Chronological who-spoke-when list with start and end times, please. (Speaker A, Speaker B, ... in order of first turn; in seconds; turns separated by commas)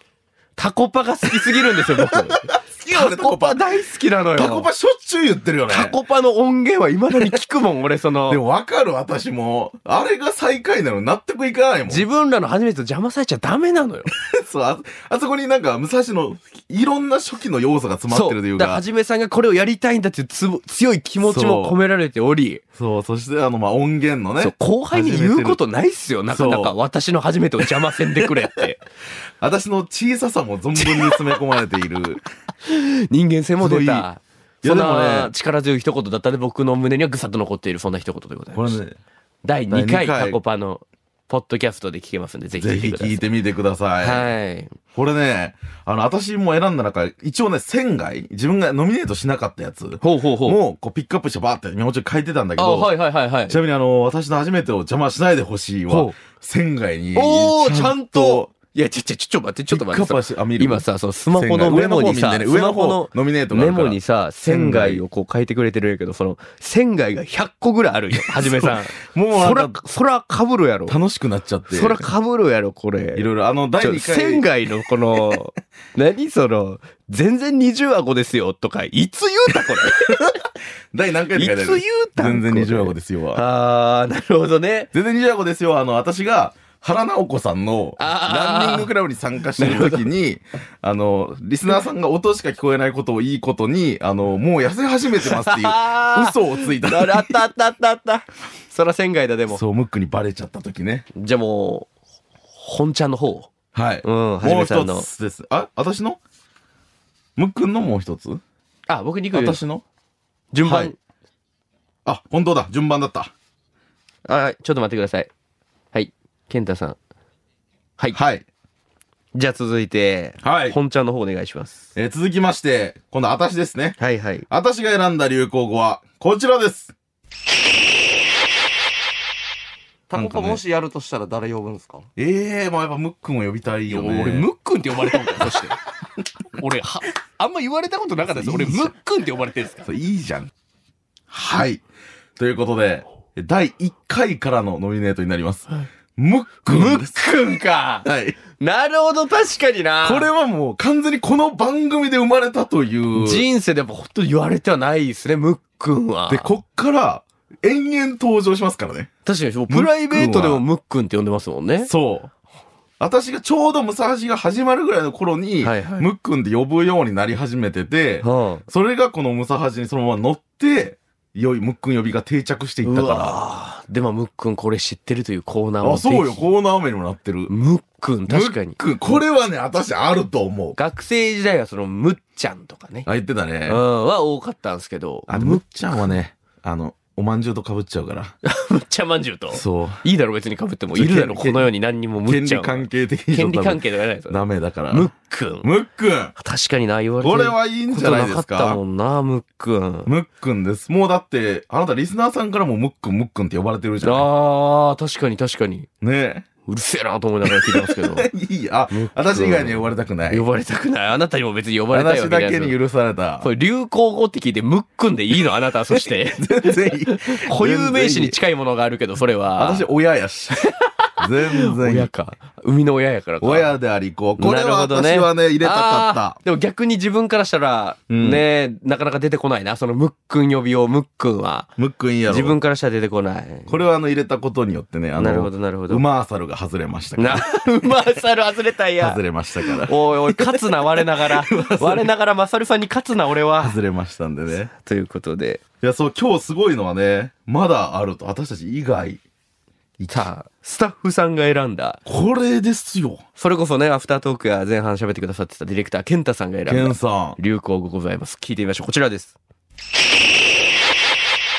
Speaker A: 0.6-4.7, Speaker B: 1.4-3.6, Speaker B: 4.3-6.0, Speaker A: 5.7-8.4, Speaker B: 8.3-12.1, Speaker A: 11.9-14.1, Speaker B: 14.1-18.8, Speaker A: 18.1-22.6, Speaker B: 21.2-21.8, Speaker B: 22.8-25.6, Speaker A: 24.4-28.8, Speaker B: 26.3-26.8, Speaker B: 27.6-28.4, Speaker B: 29.4-32.2, Speaker A: 30.8-31.2, Speaker A: 32.6-38.8, Speaker B: 33.6-34.1, Speaker B: 34.6-35.3, Speaker B: 38.5-39.0, Speaker A: 39.4-43.2, Speaker B: 39.7-40.4, Speaker B: 42.6-44.3, Speaker A: 44.0-44.8, Speaker B: 44.9-58.5, Speaker A: 50.0-50.6, Speaker A: 52.6-53.6, Speaker A: 55.9-56.2, Speaker A: 57.1-71.0, Speaker B: 59.7-65.0, Speaker B: 68.1-69.8, Speaker B: 70.9-72.1, Speaker A: 71.7-73.3, Speaker B: 73.2-74.5, Speaker A: 73.8-80.3, Speaker B: 79.7-80.4, Speaker B: 80.9-83.4, Speaker A: 81.3-84.9, Speaker B: 84.9-97.4, Speaker A: 88.0-88.9, Speaker A: 89.6-90.1, Speaker A: 95.2-99.6, Speaker B: 99.5-101.1, Speaker A: 101.1-101.9, Speaker A: 102.6-103.5, Speaker B: 103.7-106.2, Speaker A: 104.0-105.1, Speaker B: 107.4-108.4, Speaker A: 108.9-109.6, Speaker B: 109.3-109.8, Speaker A: 110.5-111.0, Speaker B: 110.6-110.9, Speaker B: 112.0-113.3, Speaker A: 114.3-115.3, Speaker A: 115.9-117.0, Speaker B: 118.1-118.5, Speaker A: 119.3-121.8, Speaker B: 120.4-120.8, Speaker B: 122.0-124.0, Speaker A: 124.0-124.5, Speaker B: 124.5-126.9, Speaker C: 130.1-132.1, Speaker B: 130.1-130.6, Speaker B: 132.2-134.5, Speaker A: 133.9-135.8, Speaker A: 136.6-139.9, Speaker B: 138.3-138.9, Speaker B: 139.9-140.5, Speaker B: 141.3-141.8, Speaker B: 142.4-147.2, Speaker A: 146.7-150.3, Speaker B: 148.0-148.4, Speaker B: 150.0-153.5, Speaker A: 153.1-156.5, Speaker B: 156.3-159.1, Speaker A: 159.2-161.9, Speaker B: 159.7-160.6, Speaker B: 161.8-162.3, Speaker B: 163.0-173.4, Speaker A: 165.6-166.1, Speaker A: 168.2-168.7, Speaker A: 172.8-176.5, Speaker B: 175.8-177.5, Speaker A: 177.5-178.8, Speaker B: 178.3-180.8, Speaker A: 180.8-183.1, Speaker B: 183.1-183.8, Speaker A: 183.7-186.1, Speaker B: 185.3-188.3, Speaker A: 188.4-195.7, Speaker B: 189.5-190.0, Speaker B: 190.9-191.7, Speaker B: 192.2-195.1, Speaker B: 195.6-196.3, Speaker A: 196.4-200.1, Speaker B: 197.2-198.8, Speaker B: 200.1-204.3, Speaker A: 204.0-205.9, Speaker B: 206.0-206.5, Speaker A: 206.7-208.3, Speaker B: 207.4-210.4, Speaker A: 208.9-212.8, Speaker B: 211.9-213.5, Speaker A: 213.4-219.9, Speaker B: 215.9-218.4, Speaker B: 219.6-220.7, Speaker A: 220.6-220.9, Speaker B: 221.2-222.1, Speaker A: 221.4-223.7, Speaker B: 223.4-226.4, Speaker A: 224.4-231.7, Speaker B: 228.1-228.4, Speaker B: 231.8-232.6, Speaker A: 232.3-233.7, Speaker B: 233.7-237.6, Speaker A: 235.2-236.0, Speaker A: 237.2-243.8, Speaker B: 239.0-242.1, Speaker B: 243.6-244.7, Speaker A: 244.8-245.6, Speaker B: 245.8-249.2, Speaker B: 250.0-250.3, Speaker A: 250.1-252.0, Speaker B: 252.1-253.2, Speaker A: 253.4-259.3, Speaker B: 256.7-257.4